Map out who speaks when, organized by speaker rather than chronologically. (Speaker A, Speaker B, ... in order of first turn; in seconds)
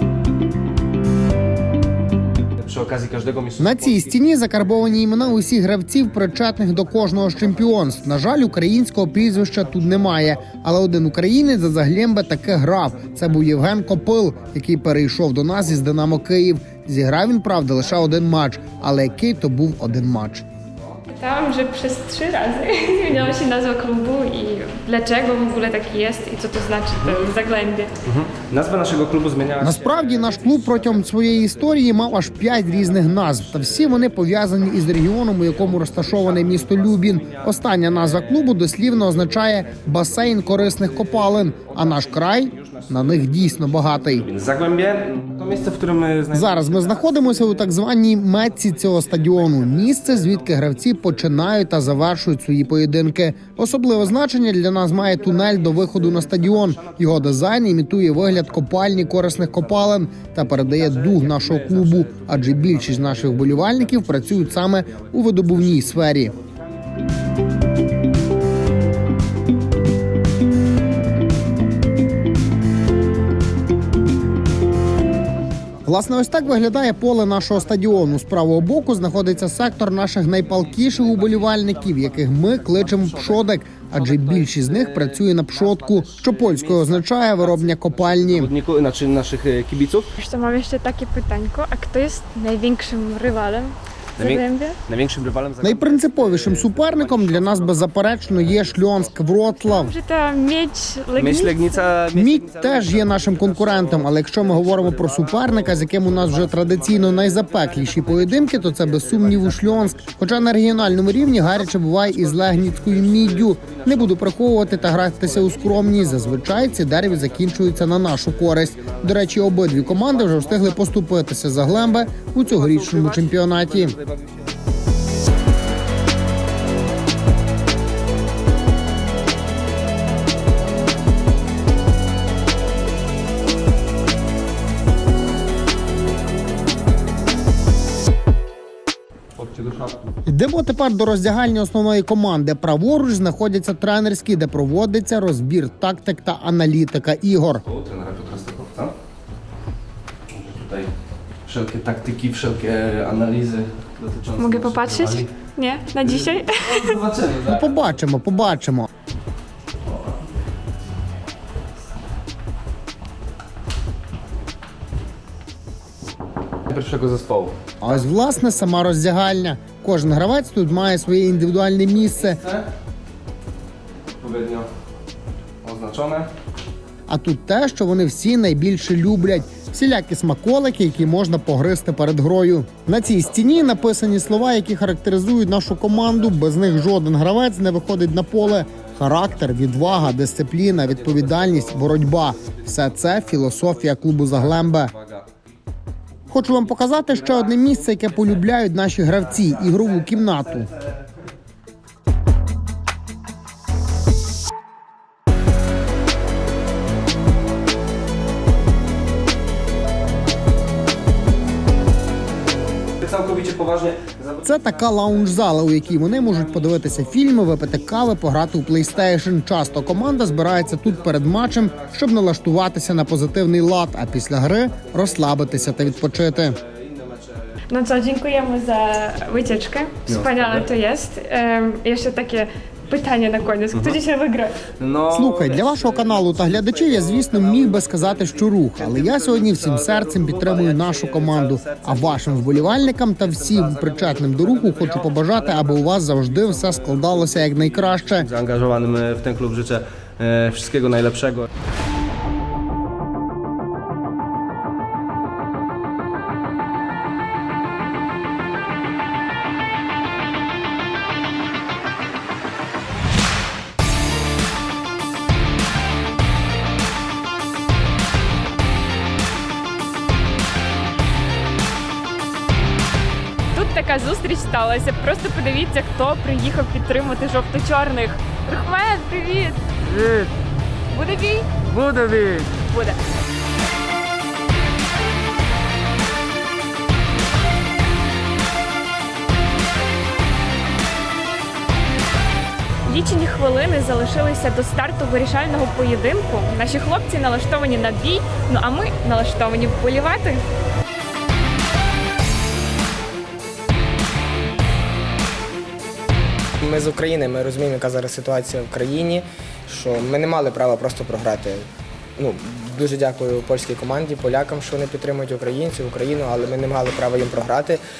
Speaker A: 2.6-5.5, 6.0-10.4, 12.3-14.7, 15.5-16.2, 17.8-20.2, 28.0-51.9, 53.6-54.2, 54.9-66.8, 80.6-90.1, 94.2-99.3, 101.2-124.5, 139.4-139.9, 147.6-148.9, 150.3-150.9, 151.4-155.3, 156.0-157.9, 166.7-168.0, 172.1-172.7, 174.2-174.7, 175.6-176.3, 183.0-184.7, 185.7-186.9, 188.2-195.5, 196.3-201.1, 213.0-222.3, 224.6-227.5, 230.1-230.7, 233.7-234.0, 234.8-251.4
Speaker B: 3.6-20.4, 29.6-44.3, 46.3-66.3, 75.8-88.5, 95.6-99.9, 102.1-124.0, 140.3-147.6, 157.4-158.9, 167.8-172.4, 177.1-194.9, 196.3-200.7, 214.4-226.6, 235.1-248.3
Speaker C: 21.1-27.9, 90.2-94.8, 99.5-101.8, 154.4-157.0, 227.7-234.6, 273.5-279.6, 280.9-281.7, 282.5-283.0, 292.9-300.4
Speaker D: 306.6-317.8